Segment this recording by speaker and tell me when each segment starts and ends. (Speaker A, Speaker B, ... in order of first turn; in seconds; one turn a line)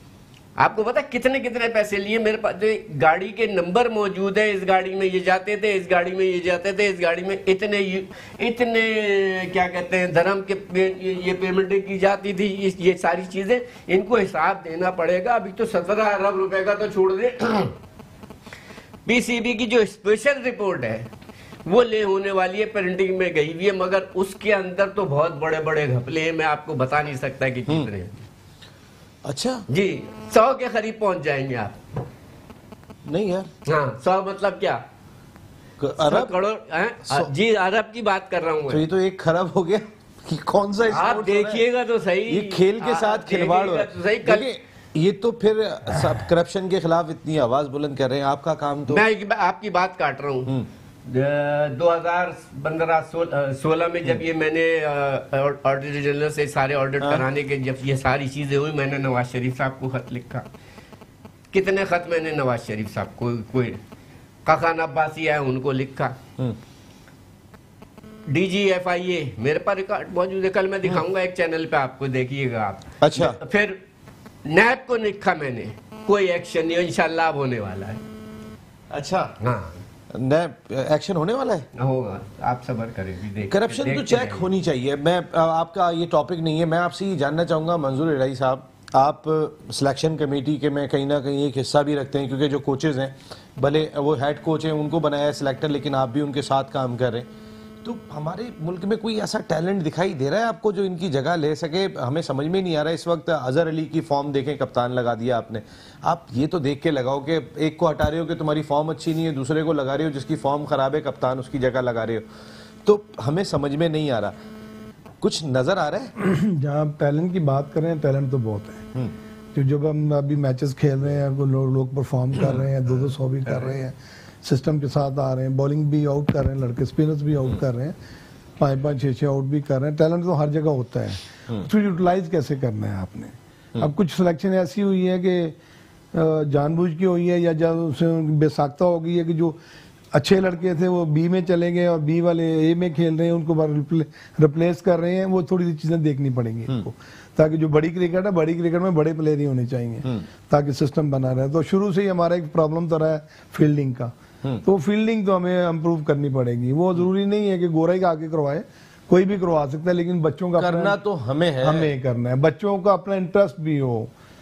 Speaker A: 0.6-17.7
Speaker A: 19.1-21.1
Speaker A: 21.7-28.2
Speaker B: 29.2-29.6
Speaker A: 29.7-32.0
Speaker B: 33.1-33.5
Speaker A: 33.6-34.8
Speaker B: 35.8-36.3
Speaker A: 36.0-38.8
Speaker B: 38.7-41.6
Speaker A: 40.9-44.5
Speaker B: 42.3-49.0
Speaker A: 48.9-50.5
Speaker A: 51.1-60.5
Speaker A: 61.5-63.8
Speaker A: 64.5-66.2
Speaker A: 68.3-73.8
Speaker B: 73.0-73.4
Speaker A: 74.5-78.0
Speaker B: 78.9-79.3
Speaker A: 79.4-79.8
Speaker B: 80.1-81.7
Speaker A: 81.8-84.5
Speaker B: 83.5-97.3
Speaker B: 97.8-112.2
Speaker B: 112.8-114.3
Speaker B: 115.2-116.1
Speaker C: 116.2-118.9
Speaker C: 119.5-128.0
Speaker C: 128.6-135.6
Speaker C: 136.1-139.6
Speaker C: 140.1-161.0
Speaker B: 160.6-161.9
Speaker C: 161.6-164.1